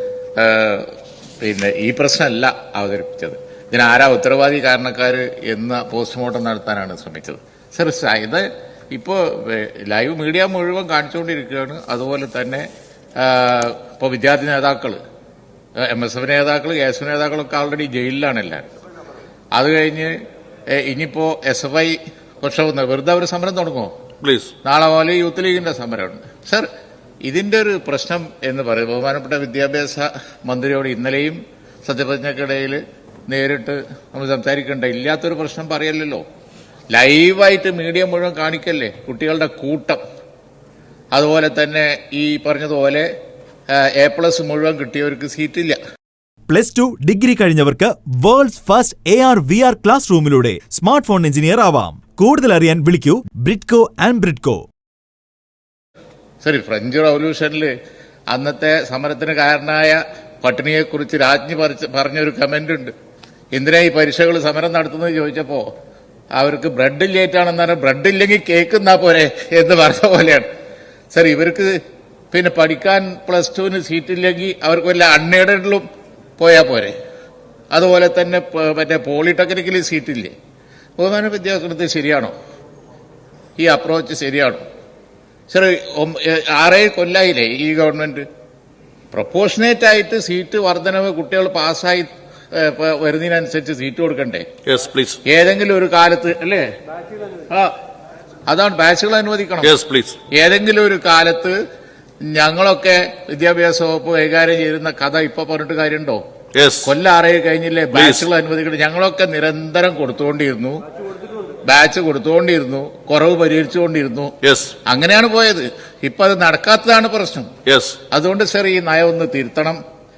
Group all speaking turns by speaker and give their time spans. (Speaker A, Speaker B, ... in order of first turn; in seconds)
Speaker A: 0.4-12.7, 13.2-15.0, 15.8-18.7, 19.5-20.2, 20.7-23.9, 24.6-26.7, 27.2-36.2, 36.9-40.0, 41.1-43.1, 43.7-45.8, 56.4-57.7, 58.3-62.9, 63.5-65.7, 66.3-70.5, 71.1-71.8, 72.3-77.0, 77.7-80.3, 81.0-82.3, 83.6-84.6, 85.5-88.3, 89.1-94.5, 95.3-96.7, 98.5-99.8, 100.3-101.6, 102.2-106.2, 106.8-110.8, 111.7-114.3, 114.8-117.5, 118.1-119.8
Speaker B: 24.2-24.5, 94.7-95.2, 99.6-100.2, 106.5-106.9, 107.9-108.3, 114.4-114.8, 117.7-118.0
Speaker C: 46.5-54.7